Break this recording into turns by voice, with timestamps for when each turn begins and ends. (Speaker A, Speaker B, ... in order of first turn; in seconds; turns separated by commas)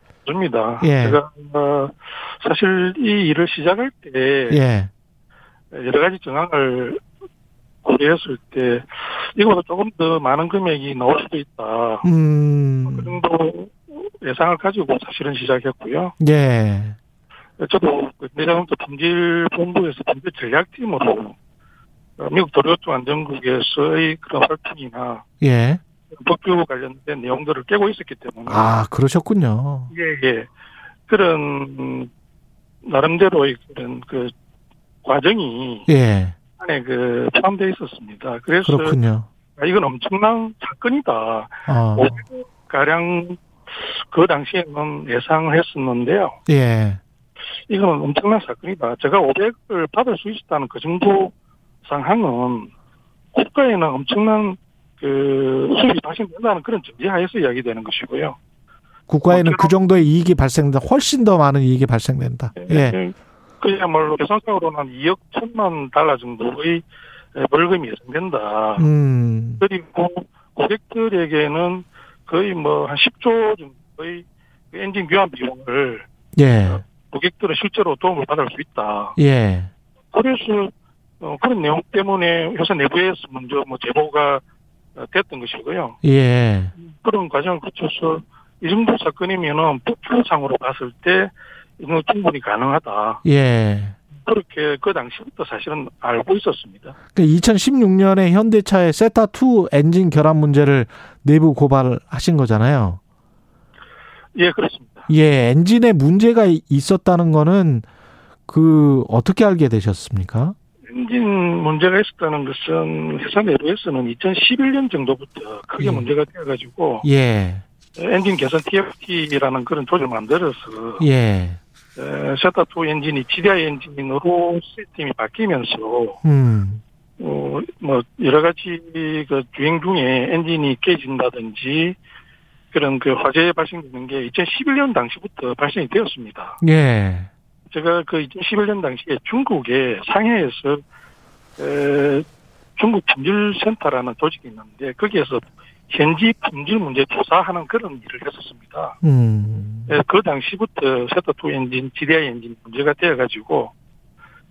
Speaker A: 0.2-4.6, Speaker B: 0.8-1.2, Speaker B: 4.5-4.9, Speaker A: 5.7-7.0, Speaker A: 7.8-12.1, Speaker B: 12.0-13.2, Speaker A: 12.8-16.1, Speaker B: 16.2-16.9, Speaker A: 17.6-21.4, Speaker A: 22.2-25.2, Speaker B: 25.4-25.8, Speaker A: 26.1-28.8, Speaker B: 28.5-29.9, Speaker A: 29.9-30.5, Speaker A: 31.1-32.1, Speaker A: 32.8-34.3, Speaker A: 35.0-35.9, Speaker B: 35.9-36.4, Speaker A: 36.6-39.0, Speaker B: 38.6-39.3, Speaker A: 39.5-46.4, Speaker B: 41.7-42.2, Speaker B: 46.5-47.0, Speaker A: 47.7-51.3, Speaker A: 51.8-52.7, Speaker A: 53.3-58.4, Speaker B: 59.1-63.0, Speaker A: 59.3-59.8, Speaker A: 62.6-68.9, Speaker B: 68.8-69.6, Speaker A: 69.6-76.1, Speaker B: 76.3-76.8, Speaker A: 76.7-79.2, Speaker B: 79.2-79.7, Speaker A: 80.1-84.4, Speaker A: 85.0-86.0, Speaker B: 86.0-86.7, Speaker A: 86.8-93.2, Speaker B: 93.2-94.0, Speaker A: 94.1-97.0, Speaker B: 97.1-103.0, Speaker A: 104.3-105.1, Speaker B: 105.1-107.8, Speaker B: 108.5-110.5, Speaker A: 110.9-117.1, Speaker B: 115.8-116.1, Speaker B: 117.0-117.6, Speaker A: 118.0-121.1, Speaker B: 121.0-121.6, Speaker A: 122.0-126.2, Speaker B: 126.2-126.8, Speaker A: 127.2-132.0, Speaker A: 132.7-136.6, Speaker B: 136.6-137.3, Speaker A: 137.7-140.8, Speaker A: 141.6-149.0, Speaker B: 149.0-149.9, Speaker A: 149.9-153.7